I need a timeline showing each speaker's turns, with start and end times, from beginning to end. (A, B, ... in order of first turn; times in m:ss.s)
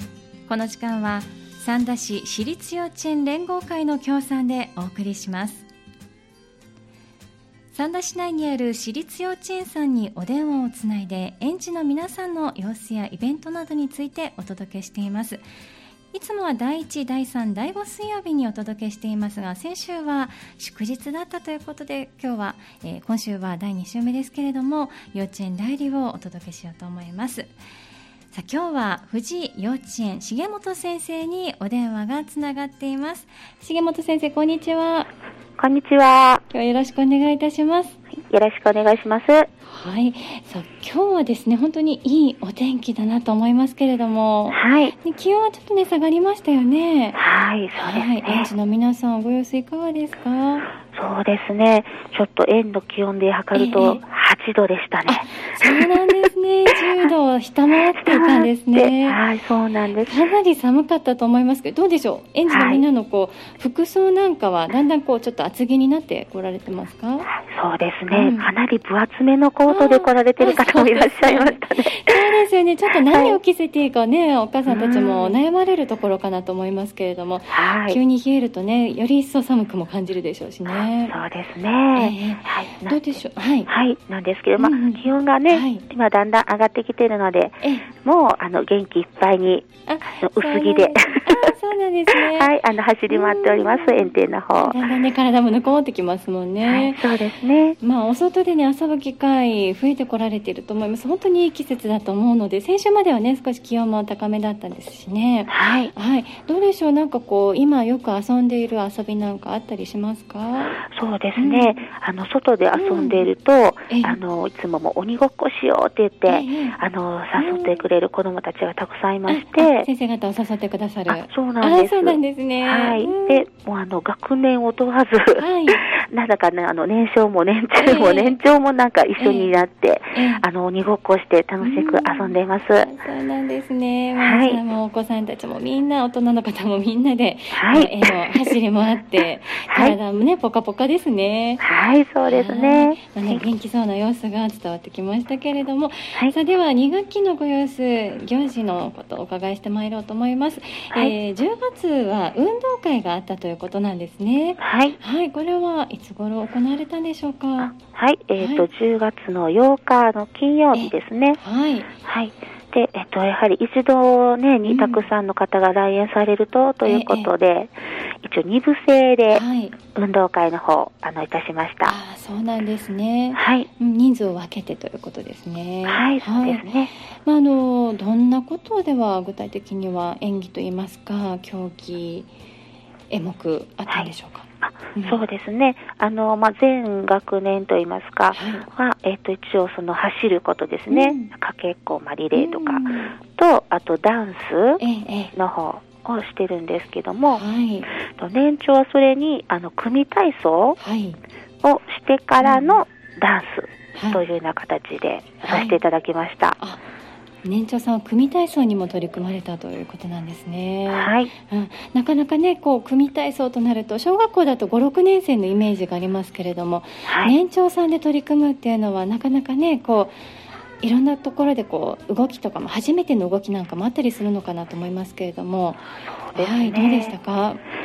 0:00.5-0:05.7 A
0:07.7-0:15.4 A
0:16.1-0:27.5 A
0:28.3-0:35.1 A
0:35.6-0:36.4 B
0:36.5-0:38.0 A
0:38.2-0:39.5 B
0:39.7-0:47.2 A
0:44.5-0:44.9 B
0:47.2-0:48.5 B
0:47.8-0:50.7 A
0:50.9-0:57.1 B
0:53.5-0:54.0 A
0:55.1-0:59.2 A
0:58.0-1:00.3 B
1:00.1-1:07.3 A
1:02.5-1:02.8 B
1:07.3-1:12.3 B
1:08.1-1:08.5 A
1:09.7-1:21.2 A
1:13.1-1:13.4 B
1:14.7-1:15.4 B
1:17.5-1:18.0 B
1:20.7-1:23.0 B
1:22.0-1:23.7 A
1:23.7-1:29.7 B
1:24.6-1:25.8 A
1:27.6-1:27.9 A
1:29.9-1:32.5 A
1:30.2-1:31.5 B
1:32.1-1:34.8 B
1:33.1-1:37.1 A
1:36.6-1:37.8 B
1:37.8-1:50.8 A
1:45.5-1:45.9 B
1:50.8-1:59.9 B
1:51.4-1:51.8 A
1:52.7-1:53.3 A
1:53.9-1:54.2 A
1:56.3-1:56.8 A
1:57.4-1:57.8 A
1:59.3-2:03.5 A
2:01.1-2:12.9 B
2:05.4-2:05.8 A
2:07.8-2:08.4 A
2:09.2-2:09.5 A
2:10.1-2:10.4 A
2:11.6-2:21.6 A
2:14.2-2:14.6 B
2:17.5-2:18.5 B
2:19.7-2:20.0 B
2:21.6-2:23.4 B
2:22.3-2:37.8 A
2:34.6-2:35.0 B
2:37.6-2:41.4 B
2:38.4-2:38.7 A
2:40.7-2:41.9 A
2:42.0-2:49.4 B
2:44.6-2:45.1 A
2:46.8-2:47.3 A
2:49.3-2:49.8 A
2:50.0-2:52.0 B
2:51.8-3:02.3 A
2:53.4-2:53.7 B
2:55.9-2:56.9 B
3:03.1-3:05.2 A
3:03.9-3:14.8 B
3:08.3-3:08.7 A
3:10.9-3:11.3 A
3:12.3-3:13.2 A
3:14.8-3:15.3 A
3:15.3-3:17.4 B
3:17.3-3:17.9 A
3:18.0-3:20.8 B
3:20.8-3:21.2 A
3:21.6-3:26.6 B
3:22.4-3:22.8 A
3:24.0-3:24.2 A
3:25.4-3:25.8 A
3:27.4-3:40.2 A
3:30.9-3:31.3 B
3:37.1-3:37.4 B
3:40.8-3:45.8 A
3:46.3-3:47.2 B
3:46.4-3:47.6 A